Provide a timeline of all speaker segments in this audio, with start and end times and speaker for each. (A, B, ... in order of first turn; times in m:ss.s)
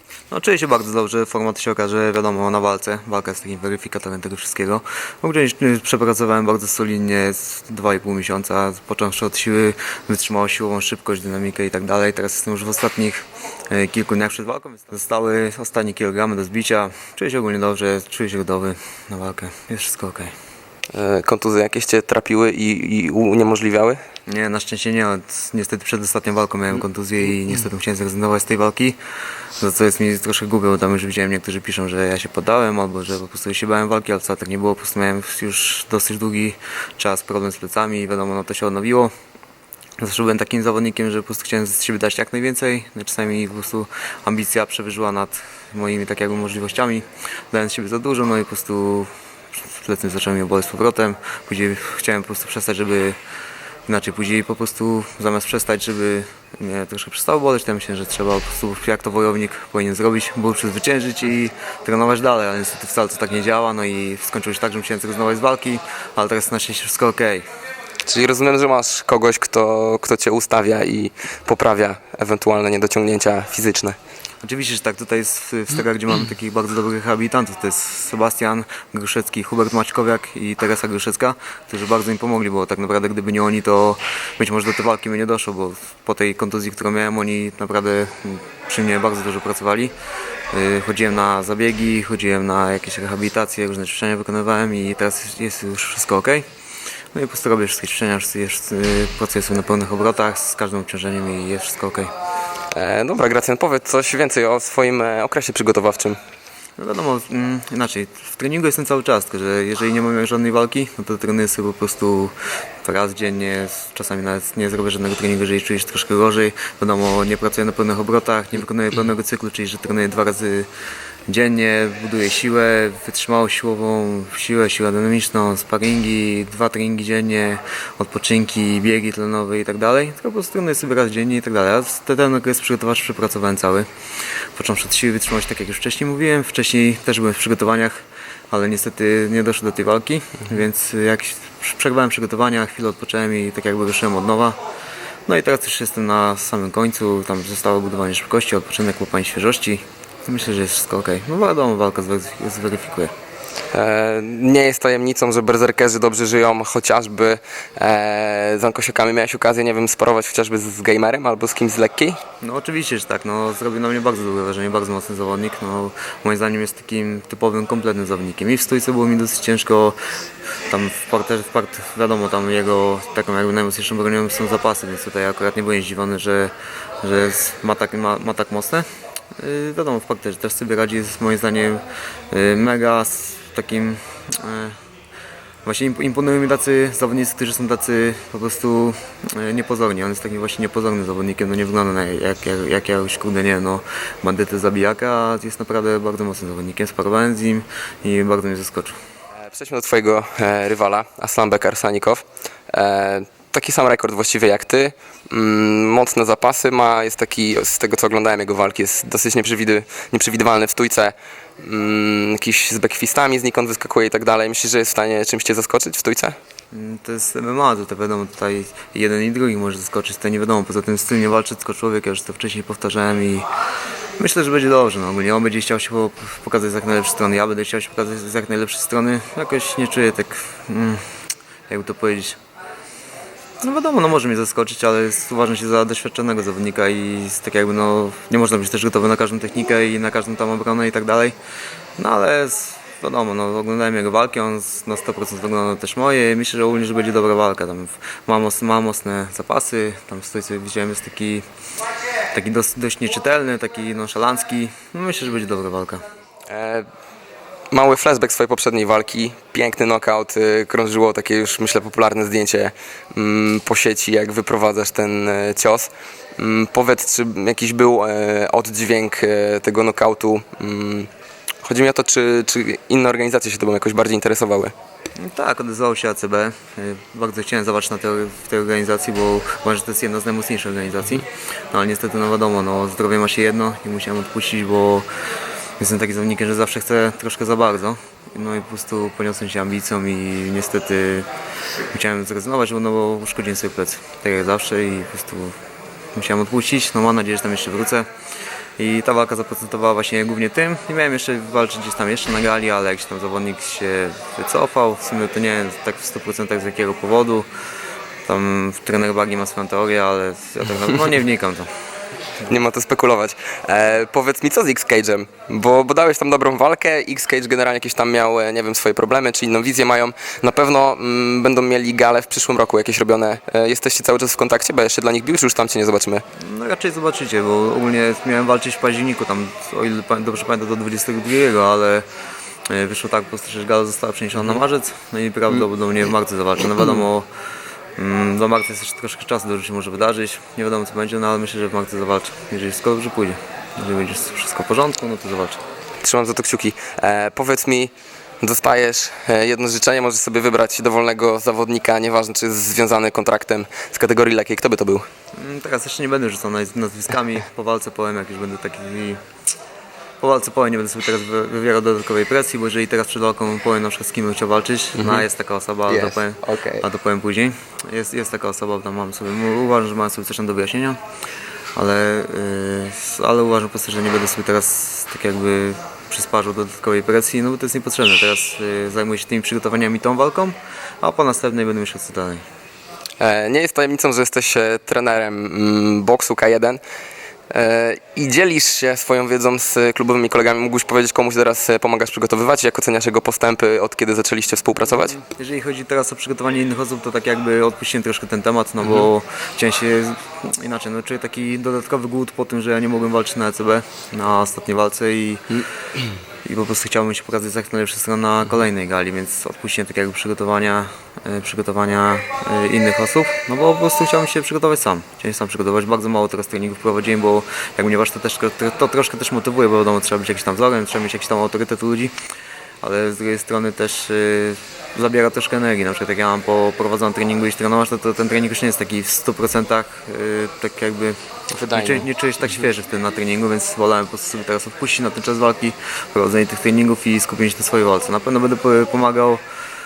0:00.3-0:20.3 A
0:20.9-0:24.0 B
0:24.3-0:29.0 A
0:29.6-0:39.1 A
0:40.0-0:53.2 A
0:53.9-1:07.4 A
1:08.1-1:14.0 B
1:14.4-1:29.9 A
1:30.5-1:36.5 A
1:37.1-1:42.1 A
1:42.7-1:46.2 B
1:46.8-2:00.7 A
2:01.3-2:13.9 A
2:14.6-2:24.6 A
2:25.3-2:33.1 A
2:33.7-2:42.2 B
2:42.4-2:50.0 A
2:50.7-2:58.9 A
2:59.4-3:04.8 A
3:05.6-3:19.0 A
3:19.5-3:36.4 B
3:36.7-3:43.5 A
3:44.2-3:51.0 A
3:51.7-3:52.4 A
3:53.6-4:01.4 A
4:02.0-4:11.4 A
4:12.3-4:16.0 A
4:16.5-4:16.9 B
4:17.7-4:31.1 B
4:31.6-4:34.7 B
4:35.2-4:45.1 A
4:45.8-4:51.3 A
4:51.9-4:55.6 A
4:56.2-4:58.1 A
4:58.8-5:07.5 A
5:08.3-5:11.7 A
5:12.5-5:26.2 B
5:26.4-5:32.1 A
5:32.7-5:37.3 A
5:38.0-5:45.6 A
5:46.0-5:55.1 B
5:55.4-5:59.2 A
6:00.2-6:11.0 A
6:05.0-6:05.3 B
6:05.9-6:06.8 B
6:11.8-6:22.4 A
6:23.2-6:26.8 B
6:27.5-6:35.2 B
6:35.0-6:45.6 A
6:46.4-7:02.2 A
7:02.8-7:19.4 A
7:11.5-7:12.1 B